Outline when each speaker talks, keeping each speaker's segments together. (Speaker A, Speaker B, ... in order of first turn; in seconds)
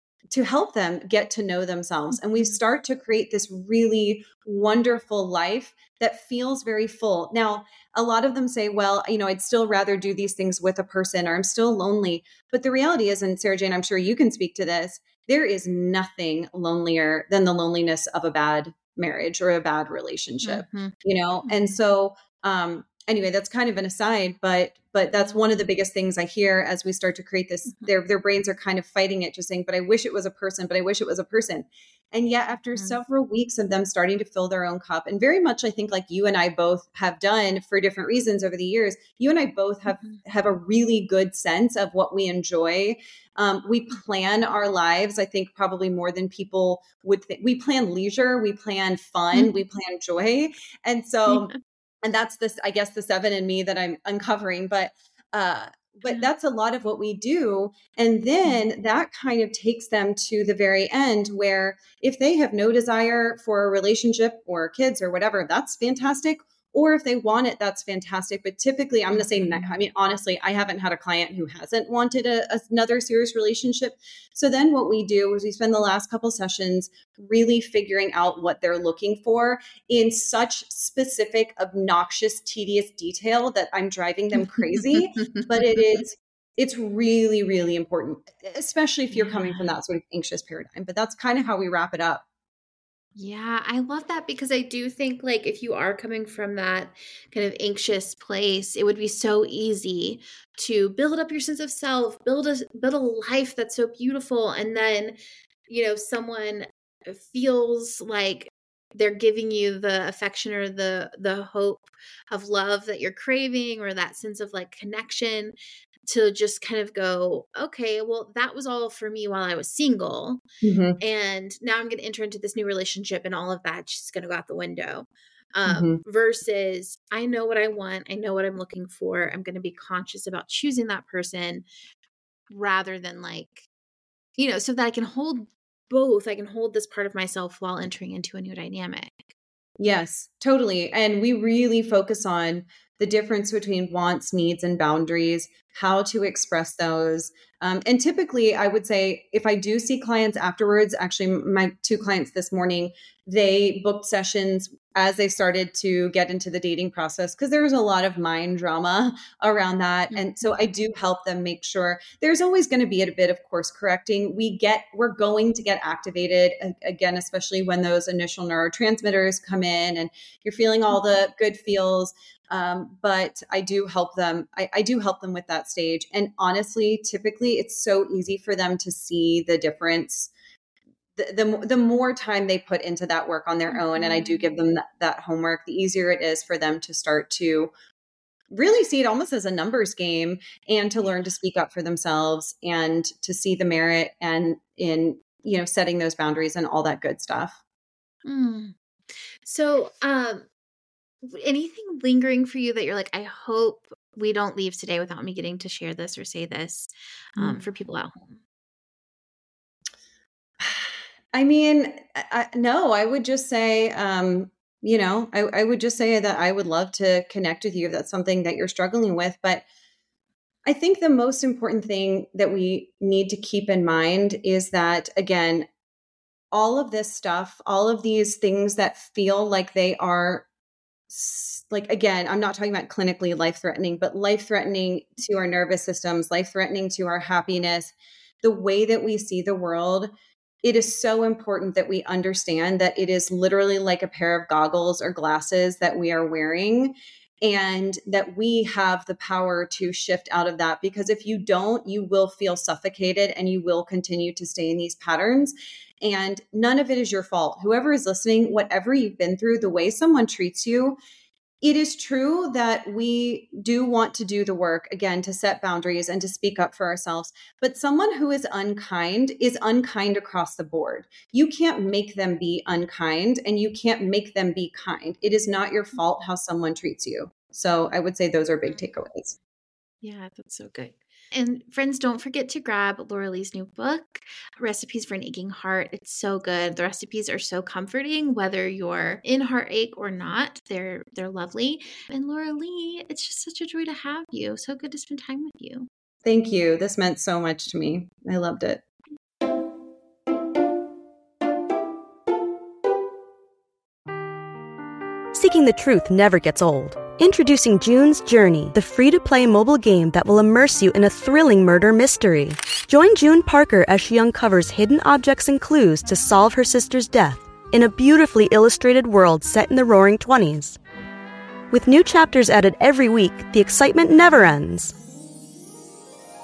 Speaker A: 0.3-92.2, 120.6-121.0, 125.7-126.0, 139.8-180.3, 181.2-187.7, 188.5-197.6, 207.4-207.7, 210.6-219.7, 220.7-225.7, 226.5-230.5, 231.1-240.1, 240.6-261.0, 261.6-279.4, 296.2-298.8
Speaker B: 2.3-2.6, 20.4-20.9, 21.5-21.8, 25.2-25.5, 32.7-33.0, 39.9-40.2, 51.3-51.6, 58.4-58.7, 69.1-69.7, 84.4-86.0, 89.1-89.7, 93.2-115.5, 116.1-120.4, 121.0-131.7, 132.5-133.7, 134.4-139.3, 160.1-160.5, 183.7-184.5, 198.3-198.8, 199.4-200.5, 201.2-208.4, 280.0-295.9
Speaker C: 305.3-320.8, 321.7-325.0